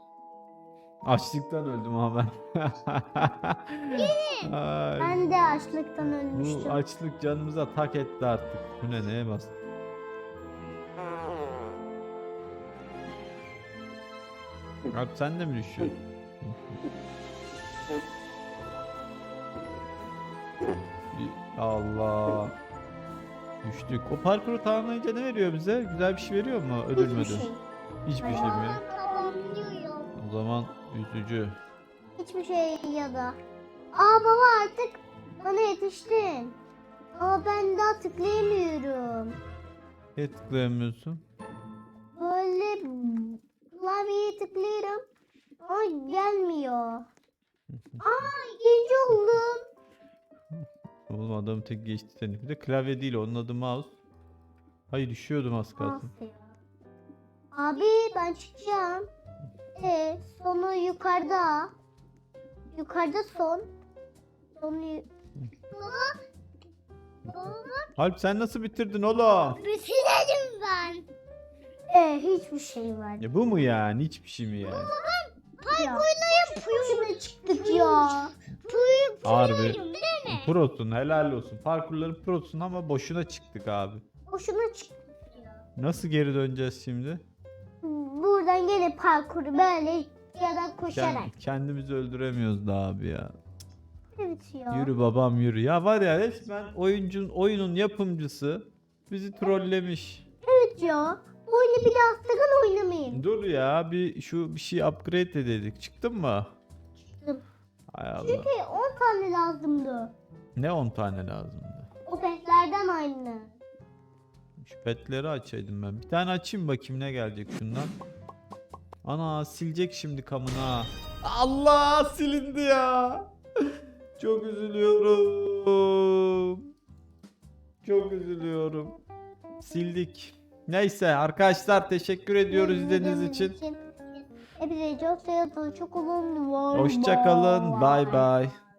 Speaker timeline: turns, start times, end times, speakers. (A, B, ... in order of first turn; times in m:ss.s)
0:01.0-0:05.2 A
0:03.9-0:04.5 B
0:05.0-0:06.8 C
0:06.3-0:09.5 A
0:14.9-0:16.8 A
0:21.1-0:22.6 A
0:23.6-0:27.5 A
0:26.9-0:27.6 C
0:28.0-0:28.8 A
0:28.2-0:28.7 C
0:28.2-0:30.1 B
0:30.2-0:31.6 A
0:32.2-0:33.4 C
0:33.9-0:36.6 C
0:37.1-0:39.4 C
0:40.2-0:41.2 A
0:42.1-0:45.0 C
0:45.6-0:47.1 C
0:47.7-0:48.0 A
0:48.0-0:49.7 C
0:50.5-0:54.0 A
0:54.9-0:56.1 A
0:55.8-0:56.5 C
0:57.5-0:59.1 C
0:59.8-1:01.7 C
1:02.7-1:03.7 C
1:04.6-1:05.1 C
1:05.7-1:06.2 B
1:07.3-1:07.9 B
1:08.0-1:09.6 A
1:09.6-1:11.1 B
1:11.9-1:13.2 C
1:13.2-1:14.9 A
1:14.6-1:20.5 B
1:15.7-1:18.3 C
1:19.2-1:24.0 A
1:24.3-1:24.9 C
1:25.3-1:25.6 B
1:25.8-1:27.2 A
1:27.8-1:31.3 C
1:30.9-1:33.3 A
1:34.2-1:34.9 C
1:34.7-1:40.2 A
1:40.4-1:43.2 C
1:43.1-1:46.5 A
1:47.9-1:48.5 A
1:48.2-1:50.1 C
1:50.6-1:51.9 A
1:52.1-1:53.5 C
1:54.6-1:57.9 A
1:59.0-2:06.7 A
2:07.8-2:09.0 A
2:09.6-2:13.6 A
2:12.5-2:13.8 C
2:14.6-2:18.3 C
2:16.7-2:18.6 A